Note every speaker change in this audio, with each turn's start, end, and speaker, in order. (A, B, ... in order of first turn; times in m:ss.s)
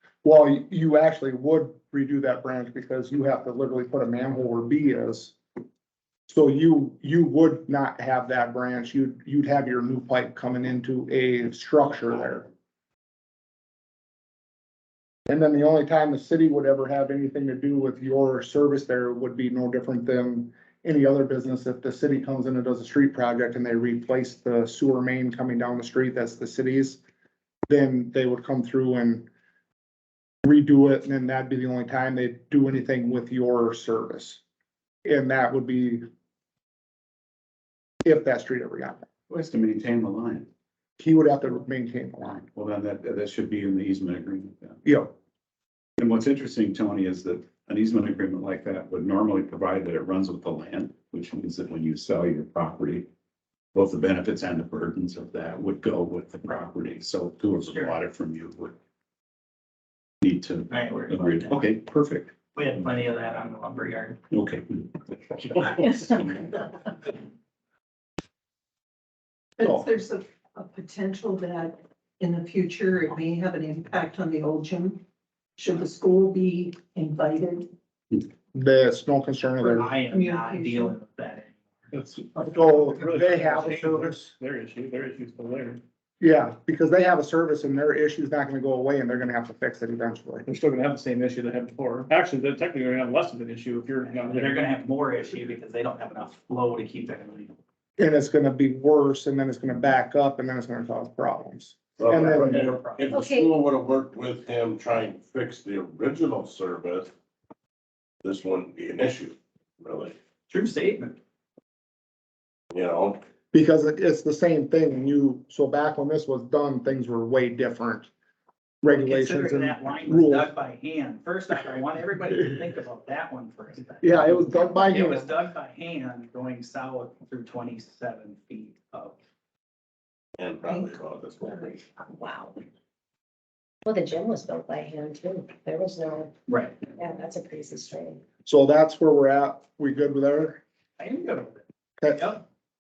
0:00.2-0:05.4 A
0:06.3-0:12.5 A
0:15.3-0:27.0 A
0:27.7-0:29.3 A
0:30.4-0:34.4 A
0:35.0-0:36.0 A
0:38.0-0:39.1 A
0:39.3-0:40.5 B
0:41.0-0:42.5 A
0:42.5-0:44.8 B
0:44.8-0:45.1 A
0:46.0-0:53.1 B
0:53.7-0:58.8 B
0:57.7-0:57.9 C
1:00.2-1:02.3 B
1:00.7-1:01.7 C
1:02.5-1:04.2 C
1:04.3-1:04.9 B
1:05.5-1:06.5 B
1:09.6-1:15.0 D
1:15.6-1:17.7 D
1:18.5-1:19.9 A
1:19.6-1:21.0 D
1:19.7-1:21.6 C
1:21.9-1:25.8 E
1:22.4-1:24.3 A
1:26.2-1:30.4 A
1:30.5-1:34.7 E
1:34.0-1:37.5 C
1:38.0-1:42.6 A
1:42.0-1:47.1 F
1:42.1-1:43.2 C
1:43.1-1:43.5 G
1:48.2-1:50.2 F
1:50.5-1:51.2 C
1:52.7-1:53.2 F
1:53.5-1:58.1 A
1:58.8-2:00.5 A
1:58.9-2:09.2 C
2:04.0-2:05.3 A
2:10.4-2:11.8 F
2:10.6-2:11.8 D
2:12.0-2:12.6 G
2:13.8-2:16.3 G
2:16.5-2:16.8 C
2:17.0-2:18.2 G
2:18.4-2:20.6 A
2:21.0-2:22.4 C
2:22.0-2:22.3 A